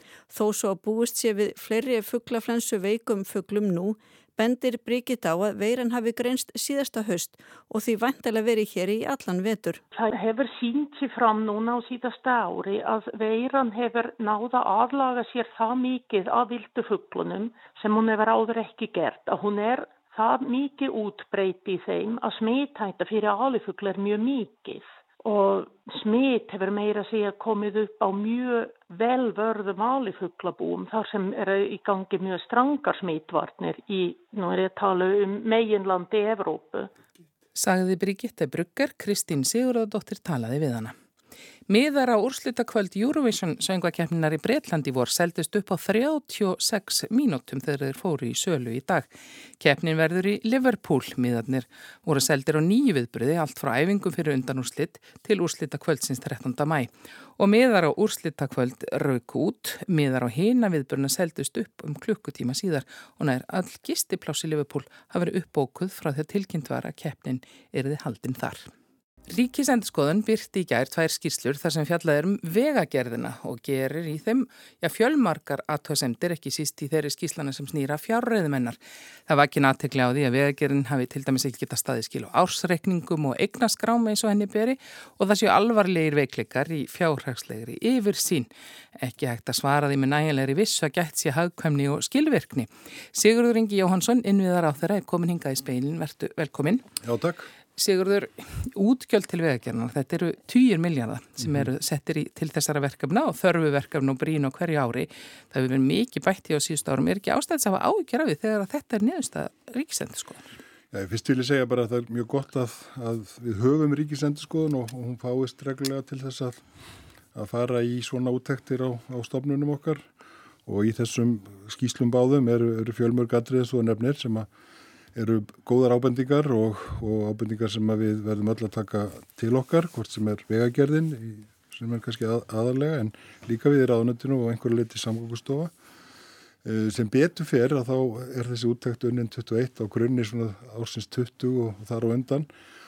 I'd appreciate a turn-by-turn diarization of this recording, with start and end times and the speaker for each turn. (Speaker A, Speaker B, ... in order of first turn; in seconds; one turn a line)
Speaker A: 0.3-9.8
Speaker B: 9.9-36.9
Speaker C: 37.6-41.0
Speaker C: 41.7-68.7
Speaker C: 69.3-96.9
Speaker D: 97.0-97.5
Speaker C: 97.8-110.5
Speaker D: 110.9-116.6
Speaker D: 117.3-120.1
Speaker D: 120.7-124.5
Speaker D: 125.2-135.7
Speaker D: 136.6-142.5